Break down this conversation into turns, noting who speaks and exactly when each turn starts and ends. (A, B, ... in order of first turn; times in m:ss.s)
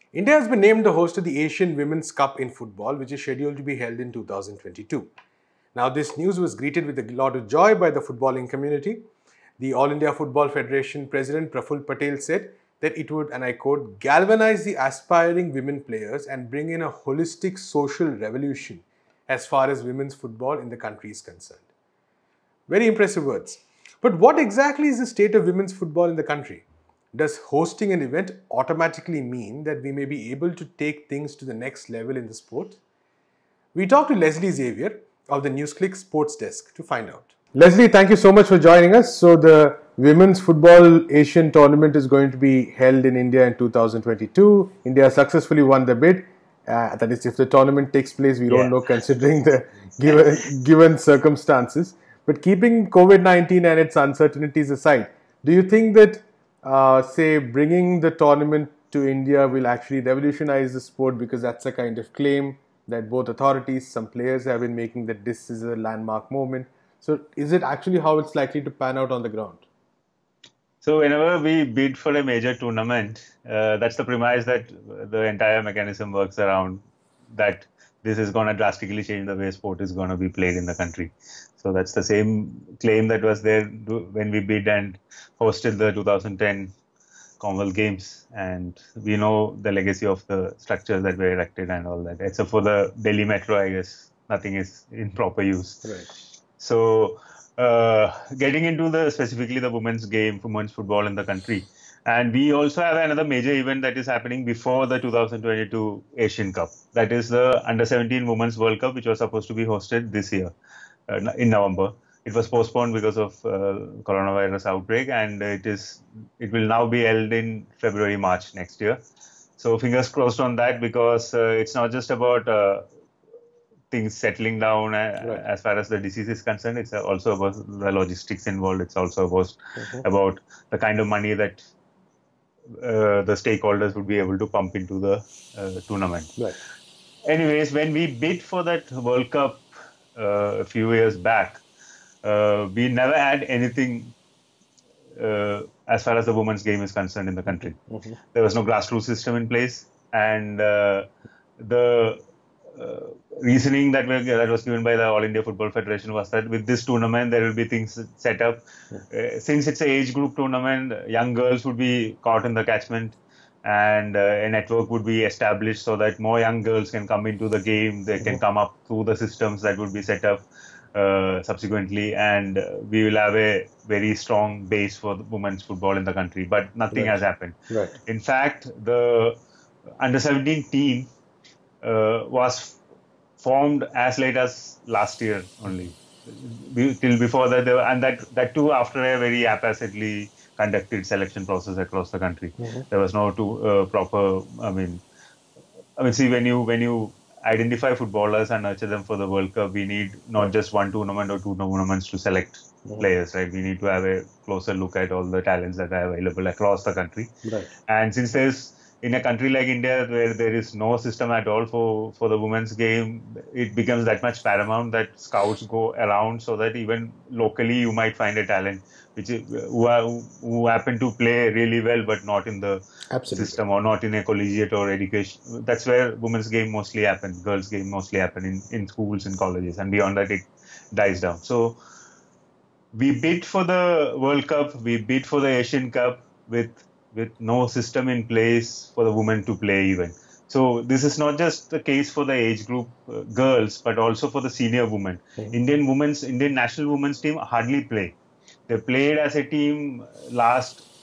0:00.1-0:05.1 A
0:05.7-0:09.1 A
0:09.6-0:21.7 A
0:22.7-0:32.8 A
0:33.7-1:09.6 A
1:10.8-1:26.7 B
1:27.4-1:35.8 B
1:35.8-1:36.1 A
1:36.6-1:50.5 B
1:51.1-1:59.0 B
1:59.6-2:02.9 B
2:03.9-2:11.7 B
2:09.8-2:10.0 A
2:12.7-2:16.3 B
2:17.2-2:21.6 B
2:22.2-2:24.1 B
2:25.2-2:27.8 B
2:27.9-2:28.2 A
2:28.3-2:31.1 B
2:31.6-2:32.2 B
2:32.7-2:59.4 B
2:56.9-2:58.0 A
3:00.0-3:01.1 B
3:01.8-3:02.8 B
3:03.4-3:15.0 B
3:12.6-3:12.8 A
3:16.0-3:27.3 B
3:27.4-3:27.7 A
3:27.9-3:51.8 B
3:43.1-3:43.6 A
3:52.9-4:08.2 B
4:08.7-4:10.9 B